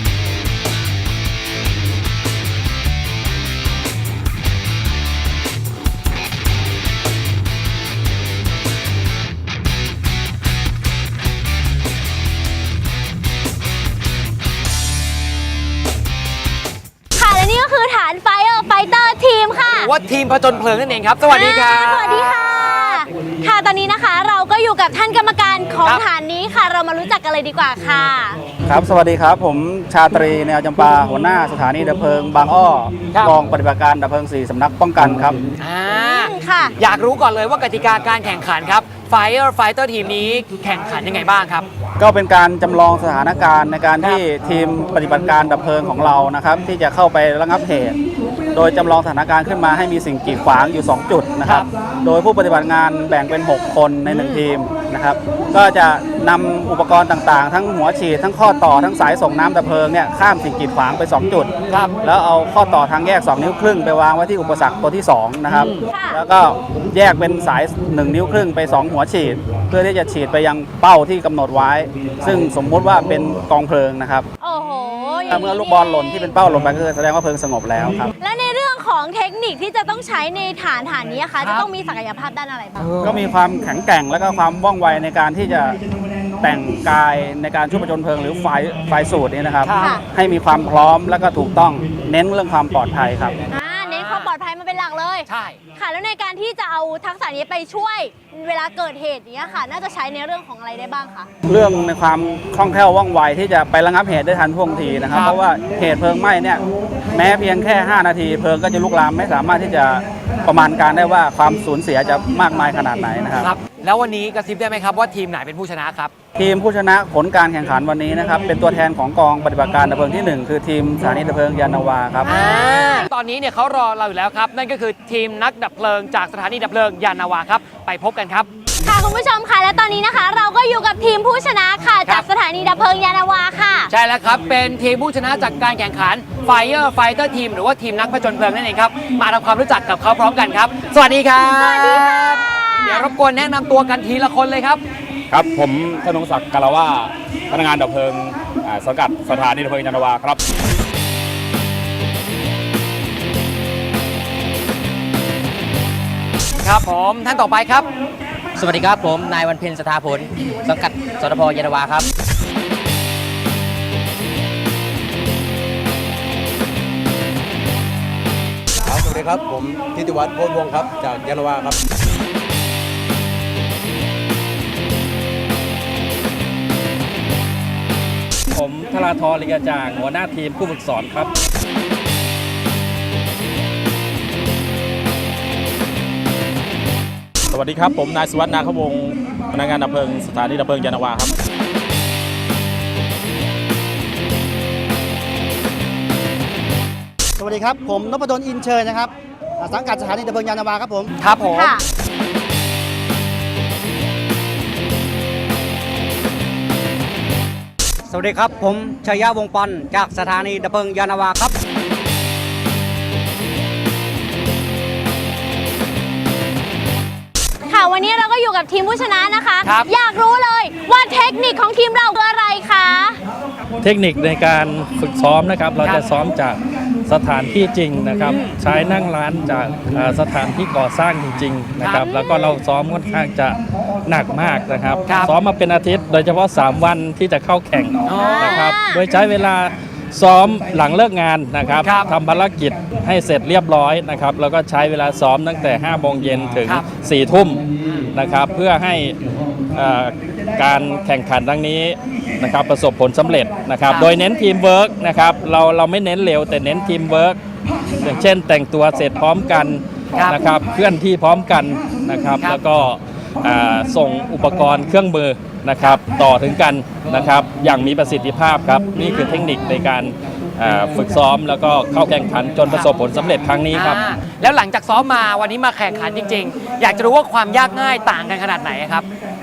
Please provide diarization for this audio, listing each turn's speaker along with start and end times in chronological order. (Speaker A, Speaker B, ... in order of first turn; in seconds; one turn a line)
Speaker A: 17.1-19.9
Speaker B: 19.7-23.0
Speaker A: 21.3-28.4
Speaker C: 28.6-35.4
Speaker B: 35.6-41.6
Speaker A: 35.9-36.7
Speaker C: 42.0-48.0
Speaker C: 48.5-61.5
Speaker B: 54.1-54.4
Speaker B: 61.7-62.0
Speaker C: 62.0-74.2
Speaker A: 65.9-66.2
Speaker A: 74.4-76.3
Speaker C: 75.3-78.1
Speaker A: 78.2-82.9
Speaker B: 81.4-81.7
Speaker B: 82.8-83.2
Speaker C: 83.0-85.8
Speaker C: 86.4-93.3
Speaker B: 89.6-89.9
Speaker A: 89.8-90.0
Speaker A: 93.5-101.3
Speaker B: 93.8-94.3
Speaker B: 95.3-95.6
Speaker C: 101.5-113.5
Speaker B: 105.1-105.4
Speaker B: 113.4-116.1
Speaker C: 116.3-122.3
Speaker A: 122.2-123.0
Speaker B: 122.2-128.5
Speaker A: 128.8-133.9
Speaker B: 133.9-144.8
Speaker A: 141.4-143.1
Speaker D: 145.3-150.4
Speaker B: 156.6-157.9
Speaker E: 158.6-162.1
Speaker F: 168.8-171.8
Speaker G: 178.5-181.3
Speaker D: 187.5-191.3
Speaker H: 197.4-201.1
Speaker B: 201.2-201.7
Speaker A: 201.5-201.8
Speaker A: 217.7-223.2
Speaker G: 223.8-249.2
Speaker B: 225.8-226.1
Speaker B: 231.8-232.1
Speaker A: 231.9-232.3
Speaker B: 235.1-235.3
Speaker B: 238.0-238.7
Speaker A: 238.2-239.0
Speaker B: 241.8-242.1
Speaker B: 247.8-248.1
Speaker G: 249.7-257.4
Speaker G: 258.0-274.0
Speaker B: 260.1-260.4
Speaker B: 273.7-279.1